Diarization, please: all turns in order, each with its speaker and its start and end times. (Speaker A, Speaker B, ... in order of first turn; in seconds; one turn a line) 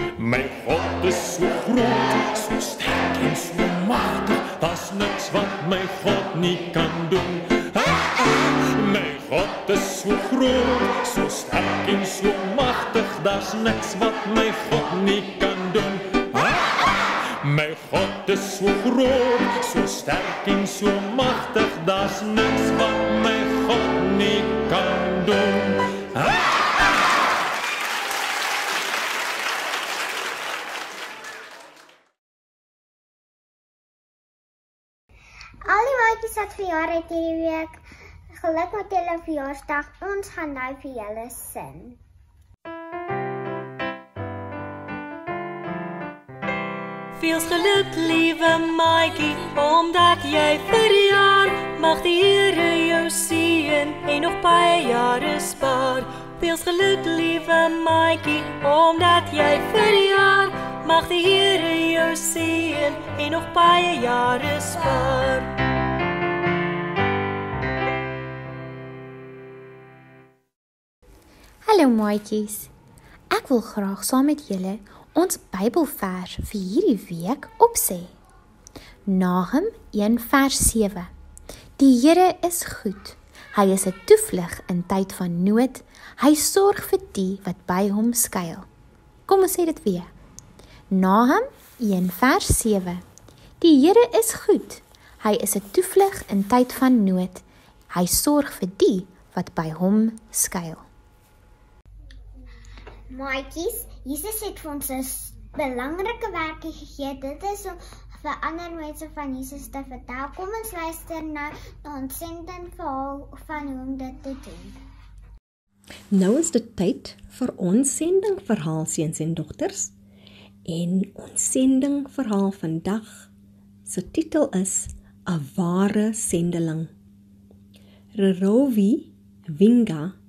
Speaker A: 0.2-26.5
Speaker B: 35.6-37.8
Speaker B: 38.4-42.0
Speaker C: 47.2-65.5
Speaker D: 71.7-72.7
Speaker D: 73.3-78.2
Speaker D: 79.1-81.1
Speaker D: 81.8-88.7
Speaker D: 89.3-90.1
Speaker D: 90.9-93.0
Speaker D: 93.6-100.9
Speaker B: 103.1-114.8
Speaker E: 116.1-119.9
Speaker E: 120.7-123.3
Speaker E: 123.9-126.9
Speaker E: 128.2-130.2